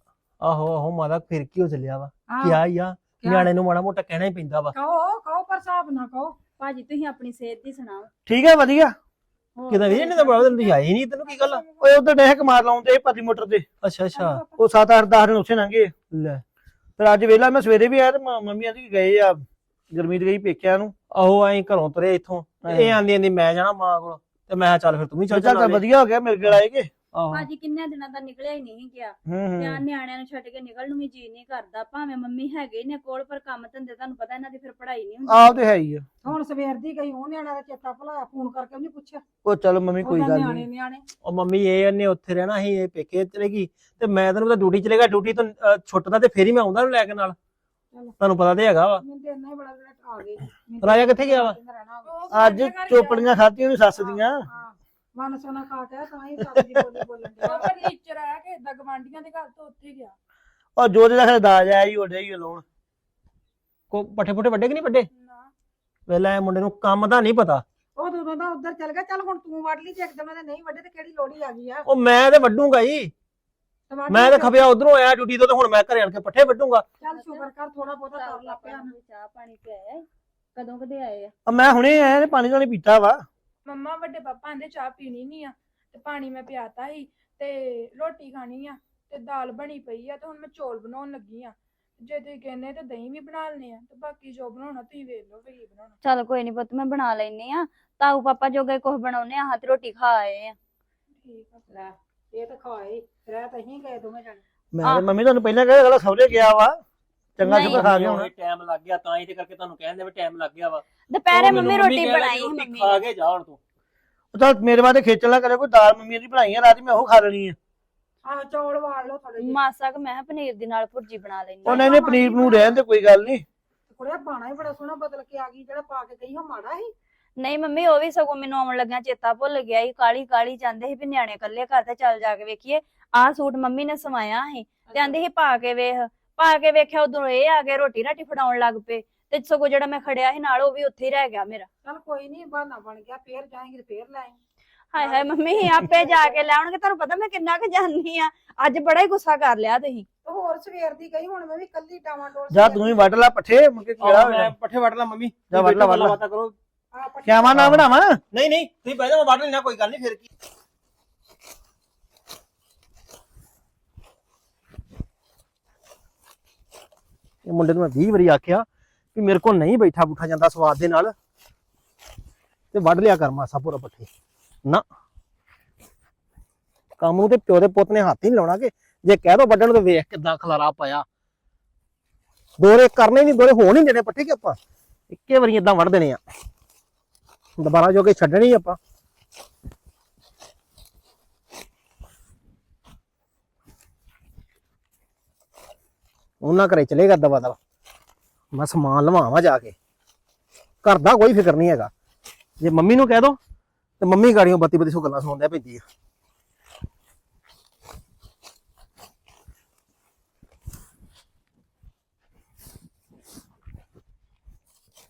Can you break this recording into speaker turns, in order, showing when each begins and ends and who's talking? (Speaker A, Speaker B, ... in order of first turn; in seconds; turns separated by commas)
Speaker A: 0.4-4.8, Speaker B: 2.3-2.6, Speaker B: 3.2-3.5, Speaker B: 4.7-6.4, Speaker C: 6.6-8.1, Speaker D: 8.3-8.9, Speaker C: 9.6-10.6, Speaker A: 9.7-11.6, Speaker B: 11.2-11.8, Speaker D: 11.8-13.7, Speaker A: 13.8-14.4, Speaker B: 14.2-14.6, Speaker D: 14.6-15.9, Speaker A: 16.1-16.4, Speaker D: 17.0-20.9, Speaker A: 21.1-25.9, Speaker D: 22.7-23.0, Speaker D: 25.3-26.9, Speaker A: 27.1-27.5, Speaker C: 27.3-35.6, Speaker D: 29.3-29.8, Speaker D: 35.3-36.1, Speaker B: 36.2-39.2, Speaker D: 39.4-40.7, Speaker B: 40.0-41.0, Speaker A: 41.2-47.4, Speaker A: 48.2-49.0, Speaker B: 49.0-52.1, Speaker A: 50.8-51.6, Speaker E: 52.0-53.3, Speaker D: 52.3-54.4, Speaker B: 54.0-57.8, Speaker E: 57.4-60.1, Speaker D: 60.8-62.6, Speaker A: 63.9-65.1, Speaker E: 65.1-65.5, Speaker A: 66.1-67.6, Speaker B: 68.0-71.9, Speaker A: 71.9-73.1, Speaker B: 73.9-74.7, Speaker A: 74.1-76.9, Speaker B: 77.0-78.9, Speaker C: 77.0-77.5, Speaker C: 78.1-81.3, Speaker D: 81.5-83.2, Speaker E: 83.7-96.0, Speaker C: 96.0-100.6, Speaker E: 101.2-101.6, Speaker B: 101.7-104.4, Speaker D: 104.7-106.8, Speaker D: 107.4-108.3, Speaker C: 107.4-107.8, Speaker A: 107.6-113.6, Speaker C: 111.1-113.0, Speaker D: 114.3-117.6, Speaker B: 118.2-119.6, Speaker C: 119.4-121.9, Speaker D: 121.6-123.4, Speaker B: 121.7-122.6, Speaker B: 123.9-126.9, Speaker C: 127.4-141.7, Speaker B: 134.9-135.2, Speaker B: 141.8-144.4, Speaker C: 144.9-150.1, Speaker B: 145.0-146.5, Speaker B: 150.2-153.2, Speaker D: 152.5-154.5, Speaker A: 154.0-156.6, Speaker D: 155.5-156.2, Speaker B: 156.9-157.6, Speaker D: 157.2-158.2, Speaker A: 157.6-160.3, Speaker A: 167.4-171.1, Speaker A: 172.7-174.1, Speaker A: 177.0-181.1, Speaker A: 182.6-184.6, Speaker A: 185.1-186.2, Speaker A: 187.6-188.8, Speaker A: 196.4-197.6, Speaker A: 198.5-199.8, Speaker A: 200.8-201.9, Speaker A: 202.6-203.4, Speaker A: 204.0-205.8